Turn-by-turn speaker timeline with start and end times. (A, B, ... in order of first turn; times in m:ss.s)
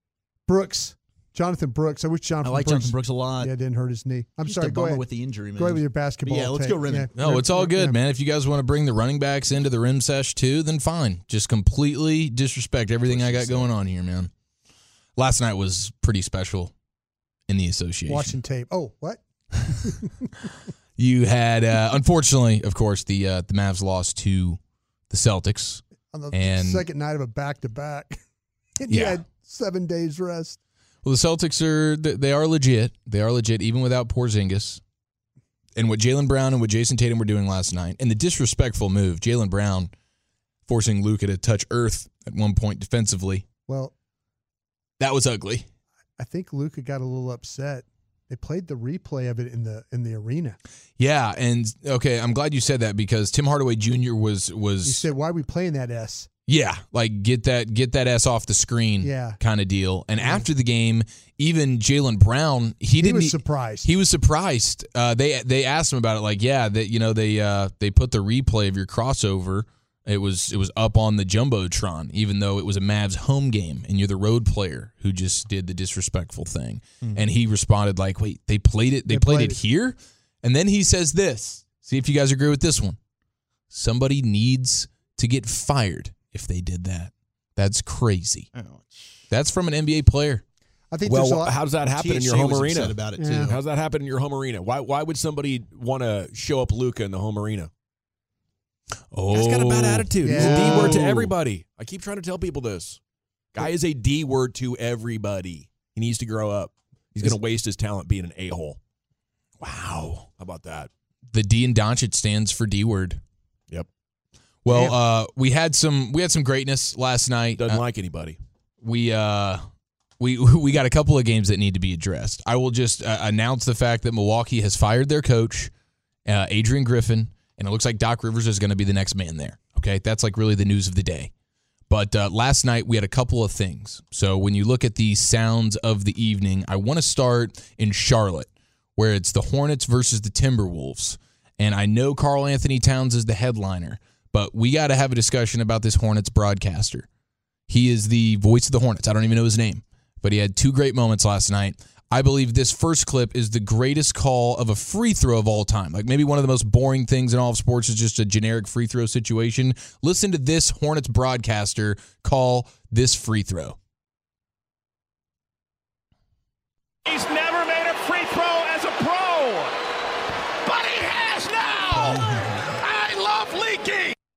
0:00.5-0:05.0 A
0:02.4-0:03.5 B
0:04.4-0:07.1 B
0:05.6-0:08.0 A
0:07.1-0:14.3 C
0:13.1-0:13.7 D
0:15.2-0:16.7 C
0:17.5-0:18.4 C
0:18.1-0:20.3 A
0:21.0-0:24.6 C
0:25.1-0:26.9 C
0:26.1-0:28.2 A
0:28.8-0:30.6 A
0:28.9-0:29.2 C
0:31.0-0:34.8 C
0:35.8-0:39.9 C
0:40.7-0:43.4 C
0:43.7-0:43.9 A
0:45.0-0:45.7 C
0:46.2-0:50.6 A
0:51.0-0:55.0 C
0:54.8-0:56.3 A
0:56.5-1:23.0 C
0:59.0-0:59.4 A
1:00.2-1:00.4 A
1:03.0-1:03.9 A
1:19.1-1:19.6 A
1:23.7-1:28.5 C
1:28.5-1:29.2 B
1:29.3-1:30.4 C
1:30.9-1:31.6 A
1:31.0-1:37.7 D
1:31.9-1:33.6 B
1:33.2-1:33.5 A
1:39.1-1:41.3 C
1:39.3-1:43.0 D
1:40.2-1:41.0 A
1:43.5-1:48.8 D
1:49.6-1:50.9 D
1:51.3-1:53.2 C
1:54.6-1:57.8 C
1:57.6-1:58.4 D
1:58.8-1:59.7 C
2:00.2-2:05.7 C
2:06.2-2:11.3 C
2:11.9-2:27.1 C
2:27.7-2:43.8 C
2:47.0-2:49.7 E
2:50.6-2:54.1 E
2:52.1-2:52.6 B